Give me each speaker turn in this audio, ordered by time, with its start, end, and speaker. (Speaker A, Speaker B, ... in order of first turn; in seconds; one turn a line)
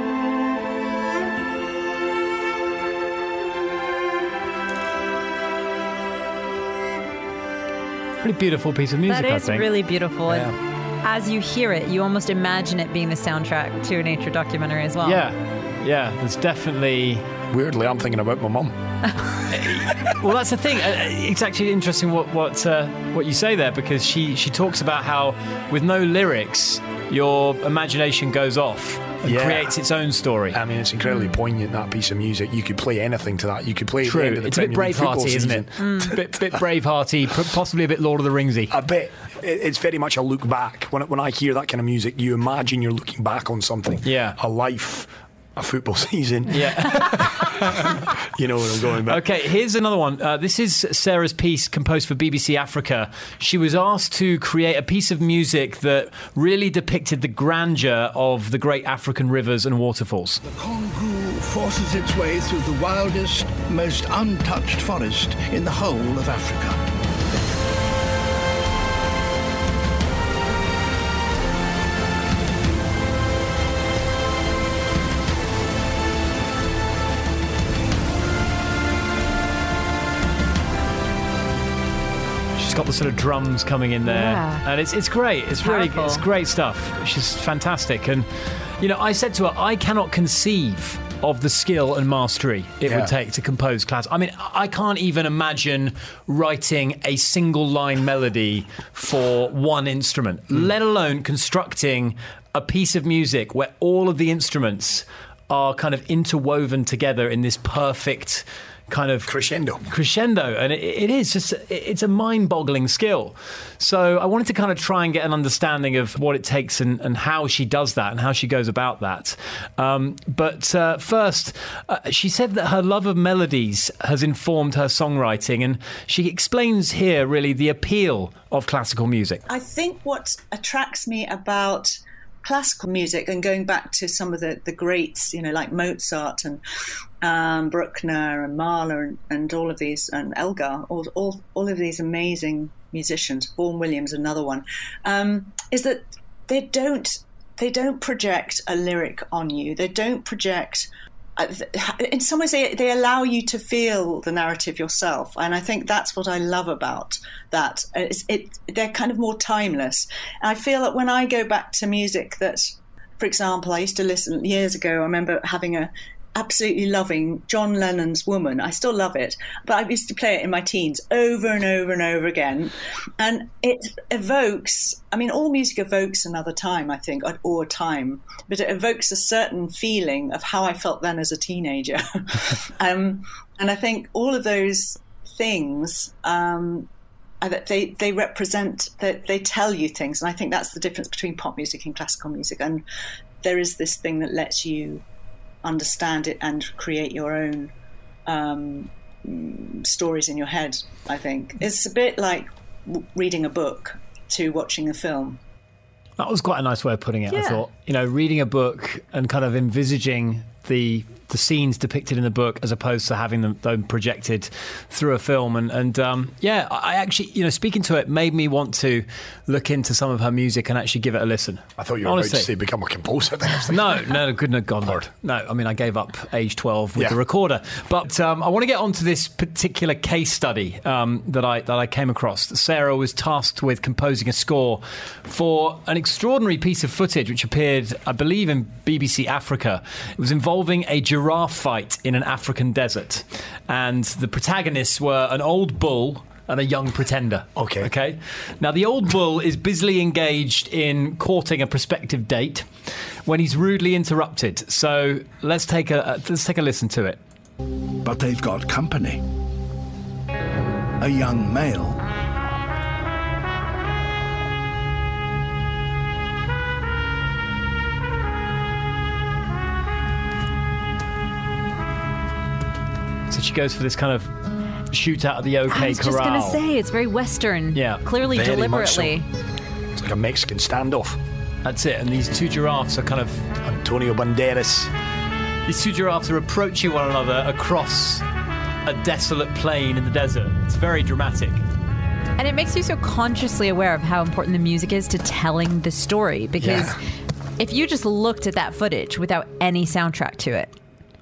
Speaker A: 8.2-9.7
Speaker B: 9.1-15.2
Speaker A: 15.0-17.3
Speaker C: 17.5-18.7
Speaker A: 19.5-30.6
Speaker C: 29.2-29.8
Speaker C: 30.5-36.2
Speaker A: 34.0-38.7
Speaker B: 35.8-36.1
Speaker C: 38.7-49.2
Speaker A: 44.0-44.4
Speaker A: 46.5-48.0
Speaker A: 49.0-60.4
Speaker D: 60.4-66.8
Speaker A: 82.5-88.3
Speaker B: 84.0-84.6
Speaker B: 85.6-86.2
Speaker A: 88.8-109.3
Speaker C: 92.8-93.1
Speaker C: 109.2-109.8
Speaker A: 109.8-129.4
Speaker E: 129.5-136.6
Speaker E: 137.2-162.7
Speaker E: 163.2-186.9
Speaker E: 187.4-192.8
Speaker E: 193.4-195.0
Speaker E: 195.6-197.7
Speaker E: 198.3-205.4
Speaker A: 206.2-222.5
Speaker B: 207.3-207.6
Speaker C: 221.8-224.1
Speaker A: 223.7-252.7
Speaker C: 247.6-247.9
Speaker A: 253.2-257.2
Speaker D: 258.0-259.2
Speaker D: 261.0-262.0
Speaker A: 273.3-274.3
Speaker A: 274.9-276.6
Speaker B: 275.7-279.2
Speaker A: 277.7-278.0
Speaker C: 278.3-279.2
Speaker C: 279.9-281.2
Speaker A: 281.6-283.5
Speaker C: 283.6-284.9
Speaker A: 285.6-288.2
Speaker A: 288.8-291.6
Speaker B: 292.4-297.0
Speaker A: 296.6-296.9
Speaker B: 297.6-300.7